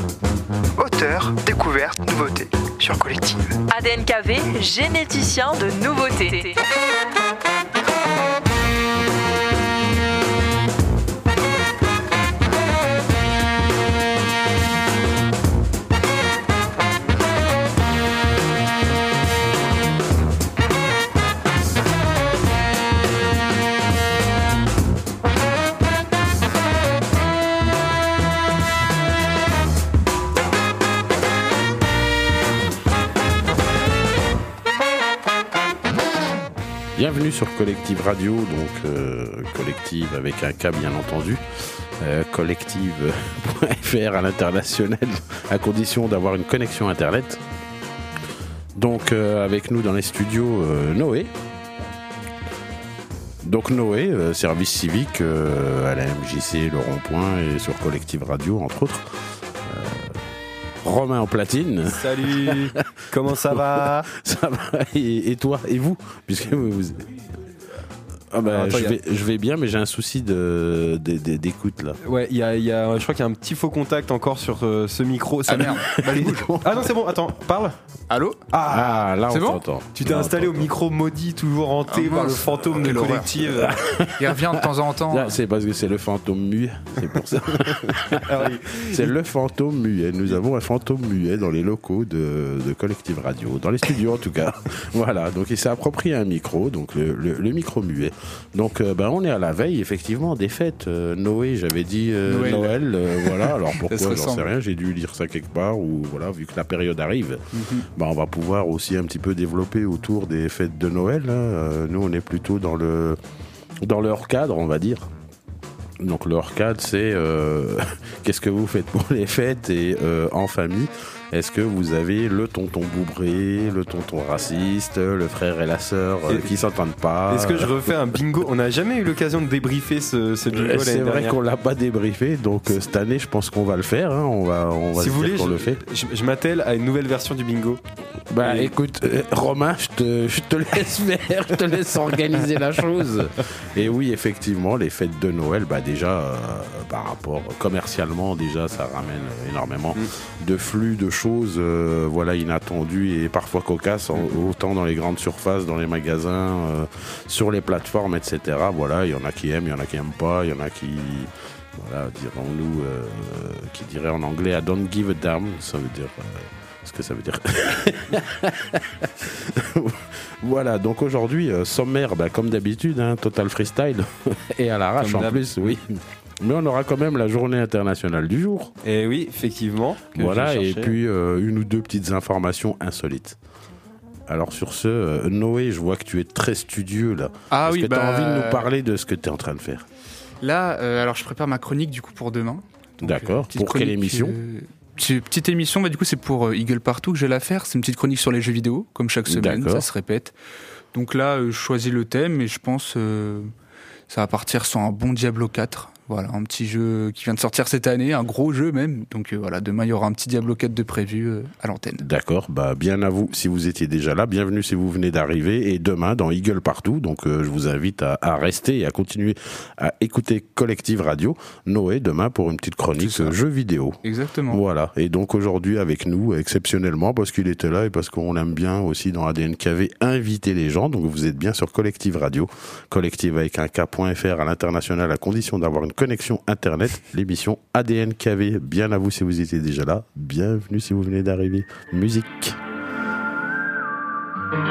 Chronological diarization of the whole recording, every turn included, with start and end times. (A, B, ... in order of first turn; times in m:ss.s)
0:00.8-0:03.5 A
0:03.7-0:06.6 B
0:37.0-0:47.4 C
0:48.8-0:51.3 C
0:53.4-1:00.2 C
1:00.8-1:07.1 C
1:01.9-1:04.1 D
1:08.3-1:12.0 C
1:08.4-1:09.0 D
1:12.0-1:17.8 D
1:15.5-1:16.5 E
1:16.1-1:16.9 C
1:18.1-1:18.4 E
1:18.5-1:18.9 D
1:18.6-1:20.7 C
1:19.3-1:19.6 E
1:20.0-1:23.8 D
1:21.9-1:23.5 E
1:23.5-1:53.2 C
1:24.2-1:25.4 E
1:28.2-1:29.1 D
1:42.3-1:44.5 E
1:47.5-1:47.9 E
1:53.8-1:55.1 C
1:56.0-2:07.9 C
2:06.3-2:06.6 D
2:07.3-2:11.4 D
2:10.5-2:15.8 C
2:15.0-2:17.8 D
2:18.3-2:58.7 C
2:18.4-2:18.8 D
2:55.0-2:55.8 D
2:58.8-3:01.0 D
3:00.2-3:03.4 C
3:04.3-3:09.9 C
3:07.5-3:08.7 E
3:10.4-3:20.3 E
3:13.0-3:14.4 C
3:19.3-3:19.8 C
3:20.9-3:23.5 E
3:24.1-3:32.1 E
3:32.0-4:02.6 C
3:43.0-3:43.4 E
3:44.0-3:44.6 E